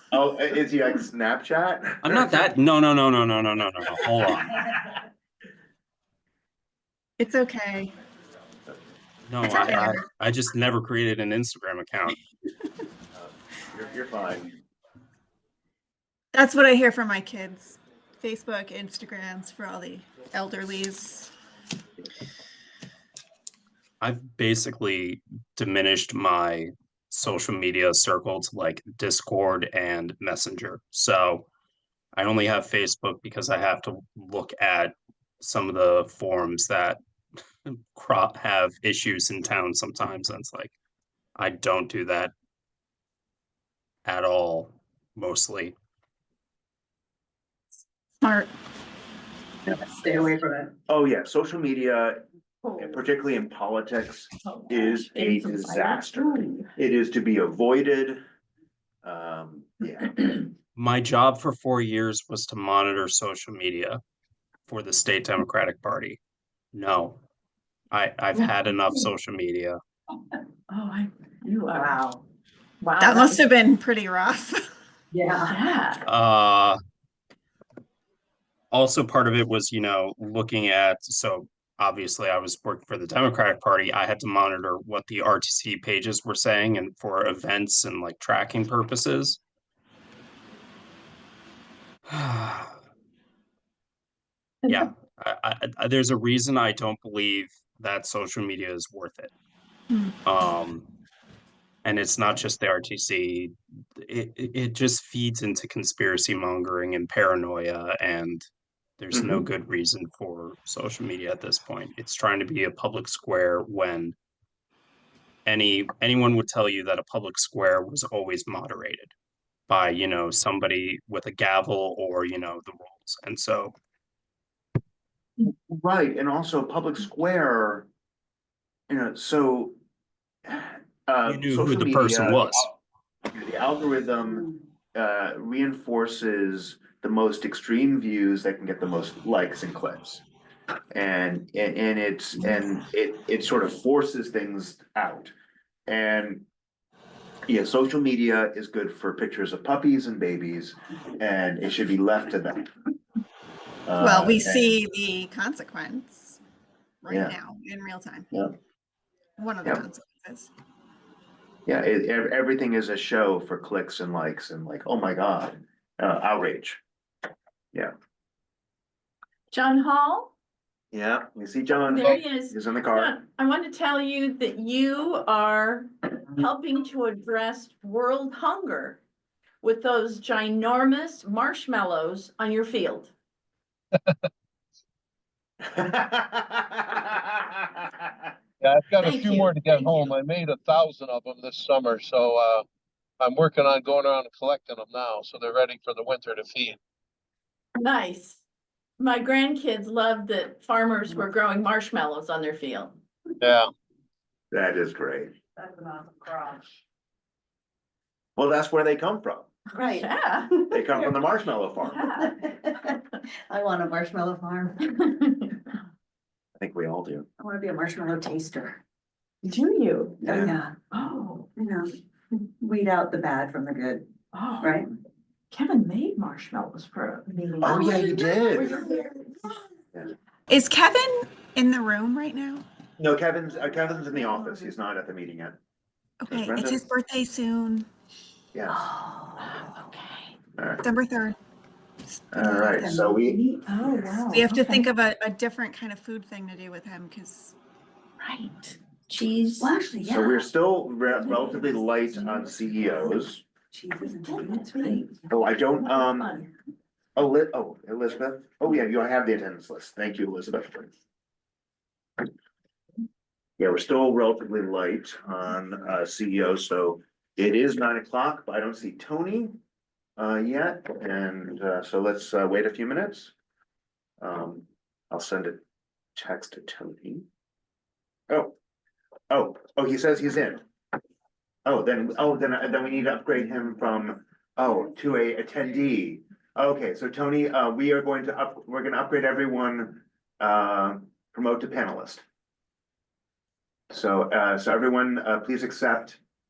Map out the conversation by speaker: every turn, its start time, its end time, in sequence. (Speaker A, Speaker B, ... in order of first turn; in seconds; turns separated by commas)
Speaker A: 0.1-2.5, Speaker B: 2.0-4.7, Speaker C: 7.2-7.9, Speaker B: 9.3-12.2, Speaker C: 9.4-10.0, Speaker A: 13.1-14.5, Speaker C: 16.3-21.3, Speaker B: 24.0-31.5, Speaker B: 32.1-37.0, Speaker B: 37.6-40.7, Speaker B: 41.4-42.3, Speaker B: 44.0-45.7, Speaker C: 48.2-48.5, Speaker D: 49.6-50.7, Speaker A: 50.9-52.2, Speaker E: 52.6-53.0, Speaker A: 52.8-58.2, Speaker E: 54.4-56.7, Speaker A: 59.0-60.4, Speaker B: 60.8-64.0, Speaker B: 64.7-66.2, Speaker B: 66.7-67.2, Speaker B: 67.9-69.8, Speaker E: 70.7-72.2, Speaker D: 71.7-72.0, Speaker E: 72.8-73.4, Speaker C: 73.0-74.6, Speaker D: 75.1-75.6, Speaker E: 75.4-76.0, Speaker B: 76.0-76.8, Speaker B: 78.7-89.4, Speaker B: 92.1-92.8, Speaker B: 94.7-99.3, Speaker B: 100.2-100.8, Speaker B: 101.8-108.5, Speaker B: 109.0-114.1, Speaker A: 109.1-109.4, Speaker B: 115.5-119.1, Speaker B: 119.7-123.7, Speaker A: 125.4-127.9, Speaker A: 128.9-129.8, Speaker A: 130.4-132.8, Speaker B: 131.2-132.7, Speaker A: 133.3-140.2, Speaker A: 140.9-145.3, Speaker A: 145.9-146.4, Speaker A: 147.5-152.7, Speaker A: 153.8-154.6, Speaker C: 154.0-156.4, Speaker C: 157.0-158.3, Speaker A: 157.1-157.3, Speaker C: 159.4-160.5, Speaker A: 161.7-166.8, Speaker E: 169.5-170.3, Speaker A: 170.9-173.2, Speaker E: 171.9-179.0, Speaker F: 171.9-172.2, Speaker E: 179.6-183.1, Speaker A: 185.7-188.3, Speaker F: 188.6-192.6, Speaker E: 189.0-190.2, Speaker F: 193.2-196.8, Speaker E: 197.8-198.4, Speaker E: 199.0-203.0, Speaker F: 203.4-203.7, Speaker A: 204.5-205.3, Speaker D: 205.6-206.7, Speaker A: 208.4-209.5, Speaker D: 209.7-210.1, Speaker E: 209.9-211.1, Speaker A: 210.7-212.1, Speaker E: 211.8-212.3, Speaker D: 212.1-212.9, Speaker D: 213.5-215.0, Speaker A: 216.6-217.3, Speaker D: 217.4-218.8, Speaker E: 219.4-220.2, Speaker D: 220.2-220.8, Speaker A: 220.2-220.6, Speaker E: 220.9-221.5, Speaker D: 221.6-224.9, Speaker E: 224.3-224.8, Speaker E: 225.5-229.5, Speaker A: 227.6-228.9, Speaker C: 230.5-232.6, Speaker A: 233.0-235.6, Speaker C: 236.2-237.9, Speaker A: 236.3-236.8, Speaker A: 238.5-238.8, Speaker E: 239.1-240.3, Speaker A: 240.6-240.8, Speaker C: 240.8-241.3, Speaker C: 242.3-243.0, Speaker A: 242.3-243.4, Speaker D: 242.9-243.3, Speaker E: 243.4-244.8, Speaker C: 244.3-247.5, Speaker E: 248.2-248.8, Speaker D: 249.1-250.5, Speaker A: 250.0-253.4, Speaker D: 251.3-256.4, Speaker E: 254.1-255.1, Speaker A: 255.3-256.3, Speaker A: 257.1-260.9, Speaker A: 263.6-269.6, Speaker A: 270.2-273.3, Speaker A: 274.2-275.6, Speaker A: 276.1-277.2, Speaker A: 278.3-278.5, Speaker A: 279.3-280.6, Speaker A: 281.6-292.2, Speaker A: 293.9-296.2